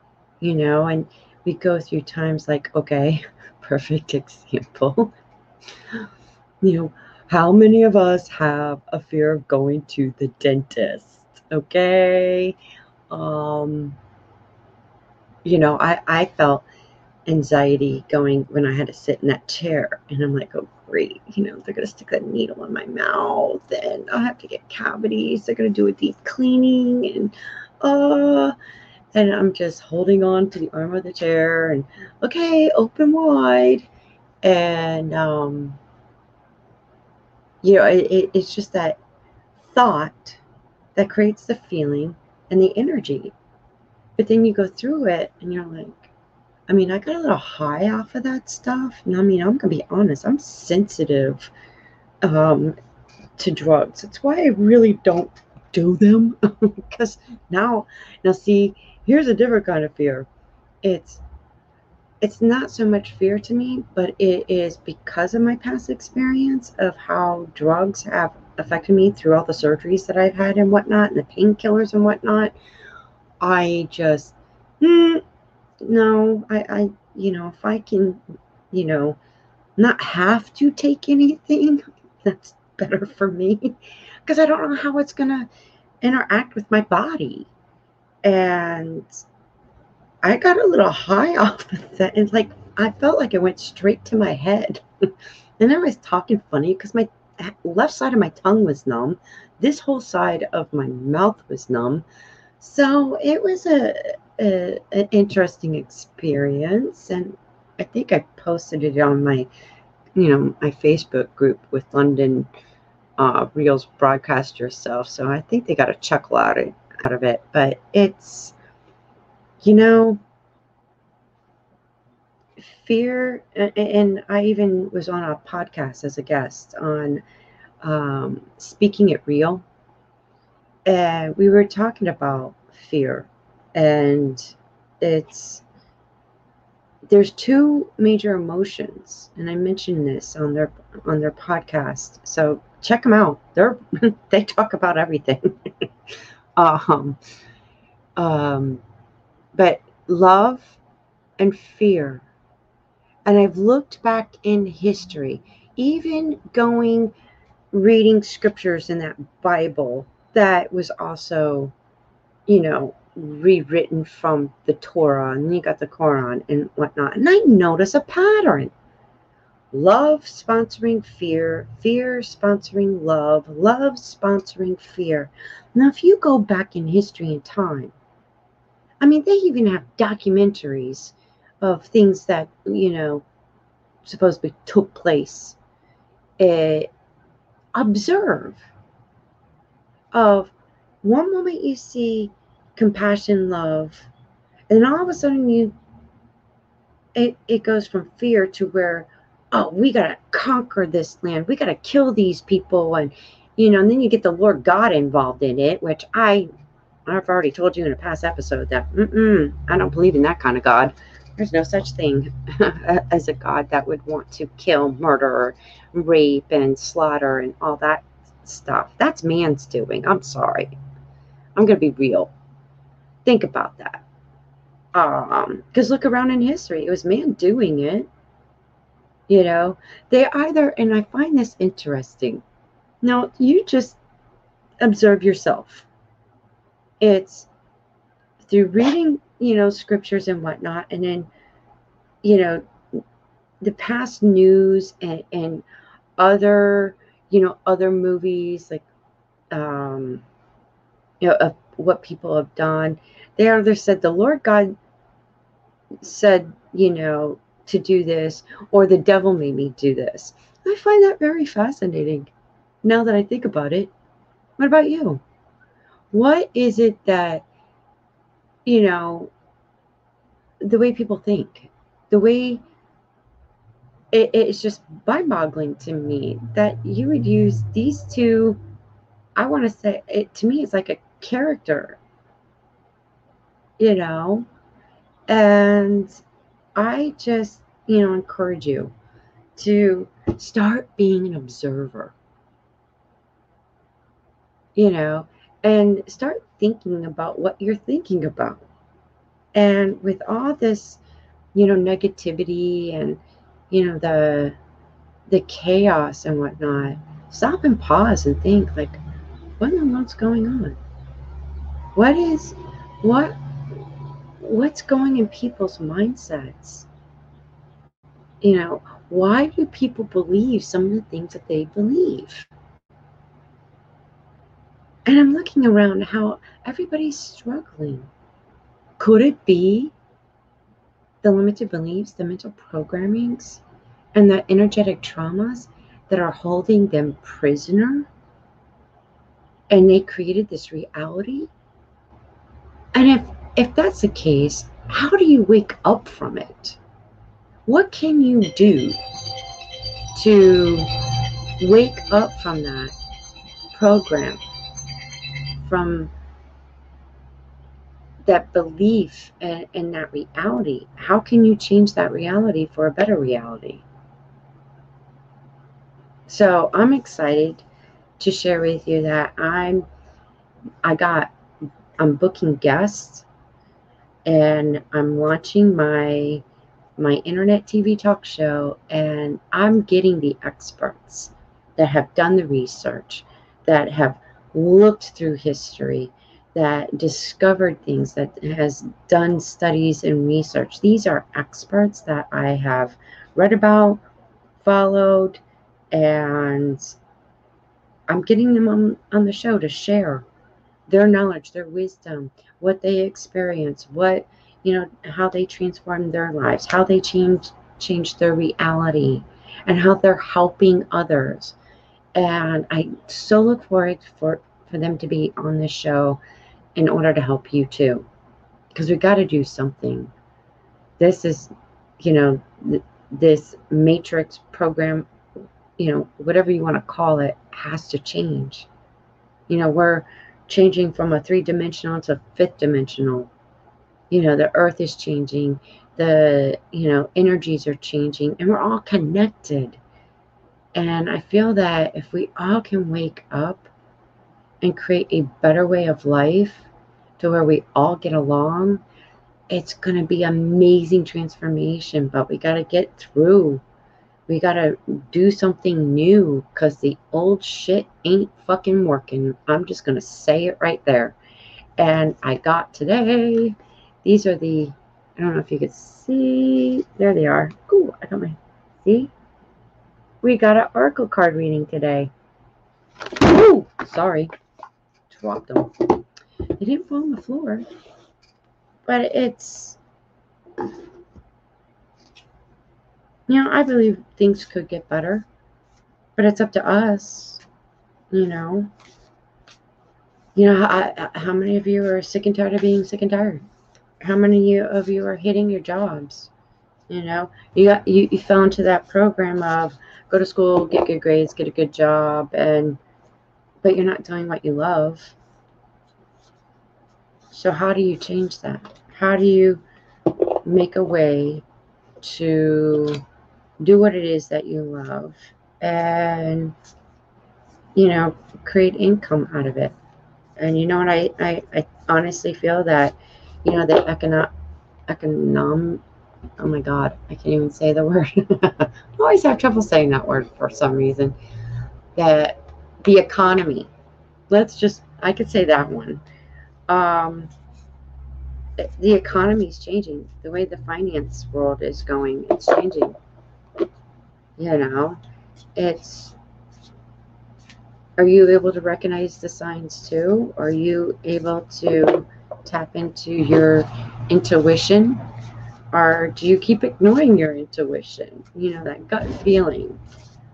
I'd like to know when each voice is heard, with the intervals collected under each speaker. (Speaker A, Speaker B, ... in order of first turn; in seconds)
Speaker A: 0.4-5.1, 6.6-12.6, 13.1-14.0, 15.4-16.6, 17.3-28.5, 29.1-33.9, 34.4-35.8, 37.6-39.0, 39.7-40.4, 41.0-43.3, 44.2-46.1, 46.7-51.5, 52.2-52.8, 53.4-60.3, 60.8-61.2, 62.2-72.5, 73.4-75.2, 75.8-78.2, 78.7-79.2, 79.8-85.5, 86.0-87.5, 88.2-89.1, 90.2-94.8, 95.6-102.0, 102.6-109.5, 110.2-112.5, 113.2-118.5, 119.6-120.2, 122.6-127.2, 127.8-129.6, 130.8-135.6, 137.1-145.9, 146.6-147.2, 148.2-148.8, 149.5-150.8, 151.4-152.2, 153.2-157.1, 157.7-161.7, 162.5-168.7, 169.7-177.9, 179.0-183.2, 184.0-185.6, 186.4-186.9, 187.7-188.6, 190.1-194.1, 194.7-195.7, 197.1-206.5, 207.1-220.7, 221.6-222.3, 223.2-224.0, 224.9-228.1, 229.3-232.4, 233.0-234.0, 234.8-235.9, 237.0-237.5, 238.4-241.3, 242.2-243.0, 243.6-245.6, 246.2-248.8, 249.5-250.2, 251.2-254.7, 256.0-262.3, 262.8-263.9, 264.6-265.2, 266.1-267.4, 268.6-269.3, 270.6-272.6, 274.1-278.6, 279.4-282.0, 283.8-284.4, 285.3-286.2, 286.8-288.9, 289.6-292.1, 294.8-298.6, 299.5-301.0, 301.5-304.6, 305.3-309.0, 309.6-310.8, 311.9-313.4, 314.4-316.9, 318.4-322.5, 325.1-328.1, 329.0-329.9, 331.2-333.6, 334.1-338.1, 339.7-341.5, 342.9-346.8, 347.6-349.0, 350.1-352.9, 353.7-354.4, 355.6-356.1, 358.2-363.8, 366.3-367.6, 368.2-369.9, 370.8-371.3, 372.0-373.2, 374.2-376.4, 377.0-394.0, 394.6-395.4, 395.9-396.9, 398.1-400.2, 400.9-411.6, 412.1-416.2, 416.8-418.1, 418.7-420.1, 421.0-425.1, 425.8-428.7, 429.5-433.3, 434.1-439.8, 440.7-443.7, 444.6-446.7, 447.2-448.8, 449.5-453.6, 454.3-461.1, 461.8-469.1, 470.2-472.1, 473.1-474.3, 475.1-476.0, 476.6-477.6, 478.9-479.8, 483.3-485.3, 486.2-487.4, 488.1-488.7, 490.3-493.4, 494.0-496.3, 496.9-502.8, 503.6-505.1, 507.3-509.6, 510.3-511.4, 512.0-513.0, 513.6-516.5, 517.7-519.7, 520.4-524.3, 524.9-525.8, 526.4-531.2, 532.0-533.7, 534.3-536.0, 536.7-537.3, 538.6-543.0, 544.4-545.0, 545.5-546.1, 548.0-555.0, 555.7-559.8